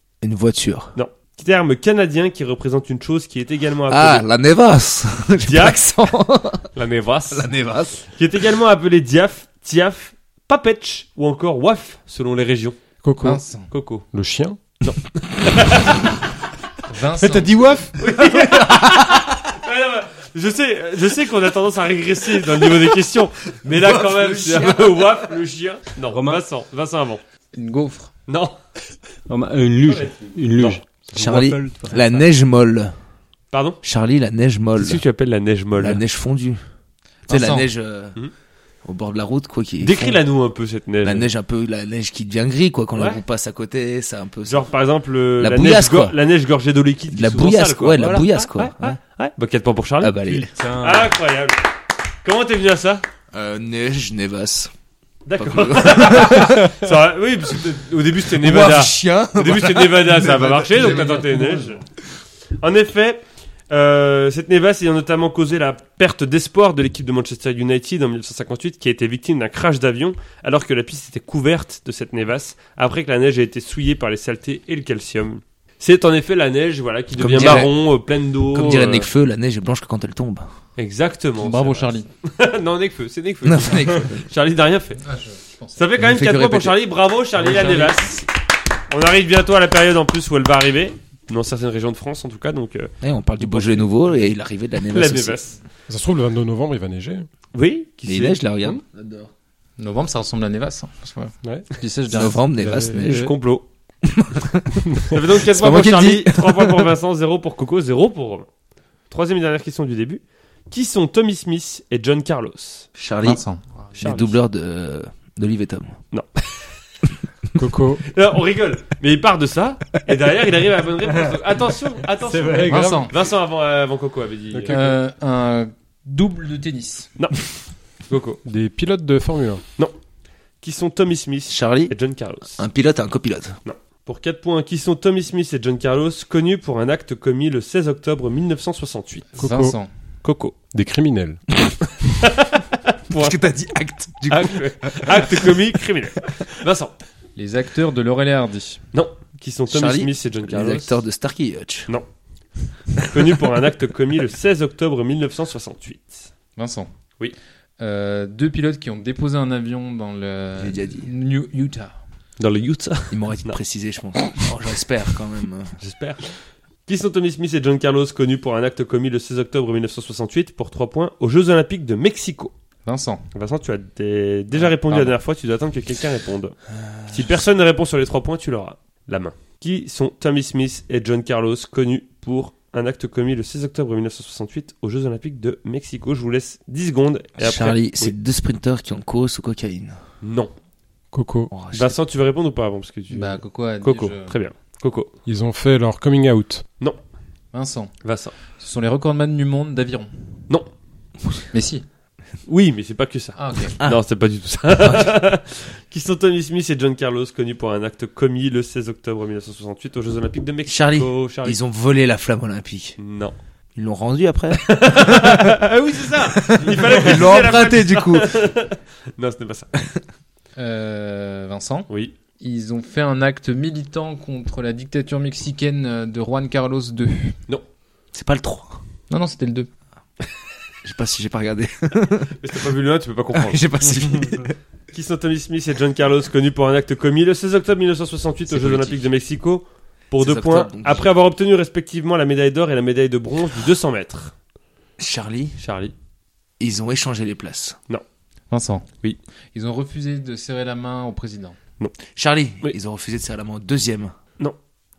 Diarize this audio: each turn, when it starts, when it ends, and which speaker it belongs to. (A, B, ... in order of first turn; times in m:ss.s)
0:00.2-0:01.0 A
0:01.0-0:04.3 B
0:03.9-0:06.7 A
0:05.4-0:05.8 B
0:06.8-0:07.5 B
0:07.3-0:08.0 A
0:08.1-0:12.9 B
0:13.0-0:13.4 C
0:13.2-0:13.7 D
0:13.7-0:14.1 B
0:14.1-0:14.6 C
0:14.8-0:16.1 B
0:16.9-0:17.8 D
0:17.9-0:27.2 B
0:23.7-0:25.0 A
0:26.1-0:26.4 E
0:27.5-0:28.1 D
0:28.3-0:28.6 B
0:29.3-0:32.2 E
0:29.9-0:30.8 B
0:31.2-0:32.9 A
0:33.5-0:33.8 B
0:33.8-0:35.0 A
0:34.8-0:36.0 B
0:35.8-0:36.6 A
0:37.3-0:37.7 D
0:37.3-0:38.2 A
0:38.8-0:40.2 A
0:39.8-0:41.3 B
0:41.0-0:44.7 A
0:43.0-0:43.2 B
0:44.5-0:50.2 B
0:45.4-0:46.2 A
0:47.1-0:49.0 A
0:50.0-0:50.5 A
0:50.2-0:51.2 E
0:50.8-0:51.6 B
0:52.2-0:53.0 B
0:53.3-0:54.7 A
0:55.3-1:01.8 B
0:55.4-0:56.9 A
0:58.3-1:01.0 A
1:00.5-1:01.6 E
1:02.6-1:19.1 B
1:17.2-1:17.8 A
1:18.5-1:20.5 A
1:20.8-1:25.0 B
1:21.4-1:22.1 D
1:23.4-1:24.3 A
1:25.0-1:25.8 D
1:25.8-1:28.2 B
1:26.0-1:26.8 A
1:27.5-1:28.1 A
1:28.9-1:34.2 B
1:33.0-1:35.4 A
1:34.9-1:35.6 B
1:35.9-1:37.3 C
1:37.5-1:38.8 B
1:38.0-1:39.3 A
1:39.8-1:42.8 D
1:42.1-1:43.4 A
1:42.6-1:43.0 C
1:43.0-1:43.7 B
1:44.0-1:46.9 A
1:45.1-1:48.5 B
1:49.1-1:52.9 B
1:53.0-1:53.4 A
1:53.2-1:53.6 D
1:54.0-1:54.4 B
1:54.0-1:56.0 A
1:57.6-1:58.0 C
1:58.1-2:04.8 B
2:02.2-2:03.0 E
2:02.7-2:03.1 D
2:04.5-2:05.0 C
2:04.7-2:07.1 D
2:07.2-2:07.5 B
2:08.1-2:08.4 B
2:08.5-2:09.6 C
2:10.6-2:12.6 B
2:11.5-2:11.9 A
2:12.6-2:13.6 A
2:13.6-2:19.3 B
2:19.4-2:19.9 D
2:19.4-2:19.8 C
2:20.2-2:20.6 B
2:20.7-2:21.4 C
2:22.0-2:23.4 B
2:23.1-2:25.6 A
2:24.3-2:26.9 B
2:27.4-2:28.8 D
2:28.9-2:31.0 B
2:29.7-2:31.9 A
2:33.0-2:36.3 B
2:36.6-2:36.9 D
2:37.8-2:42.0 D
2:40.6-2:41.1 A
2:42.4-2:43.6 B
2:43.1-2:45.8 A
2:45.8-2:52.5 B
2:52.9-2:53.2 D
2:53.3-3:08.1 B
2:54.5-2:55.2 A
2:56.8-2:57.2 A
3:07.4-3:10.0 A
3:10.2-3:10.5 B
3:11.1-3:11.5 C
3:11.5-3:12.0 A
3:11.7-3:15.1 B
3:13.1-3:14.3 D
3:15.3-3:16.6 C
3:17.5-3:17.9 D
3:18.0-3:18.4 B
3:18.6-3:20.1 D
3:21.5-3:21.8 D
3:22.5-3:31.6 B
3:23.4-3:23.8 D
3:24.8-3:25.2 A
3:30.7-3:33.0 A
3:33.0-3:33.3 B
3:33.8-3:35.6 A
3:34.5-3:39.7 B
3:36.2-3:38.4 A
3:40.6-3:47.4 D
3:48.1-3:48.8 A
3:49.1-3:49.7 D
3:50.8-3:52.4 A
3:52.4-3:53.6 B
3:53.3-3:54.6 A
3:54.9-4:04.3 B
3:58.5-3:59.1 A
4:00.2-4:01.1 A
4:05.0-4:05.6 A
4:05.6-4:05.9 B
4:06.6-4:07.8 A
4:08.5-4:08.9 D
4:09.5-4:11.6 D
4:12.1-4:14.2 A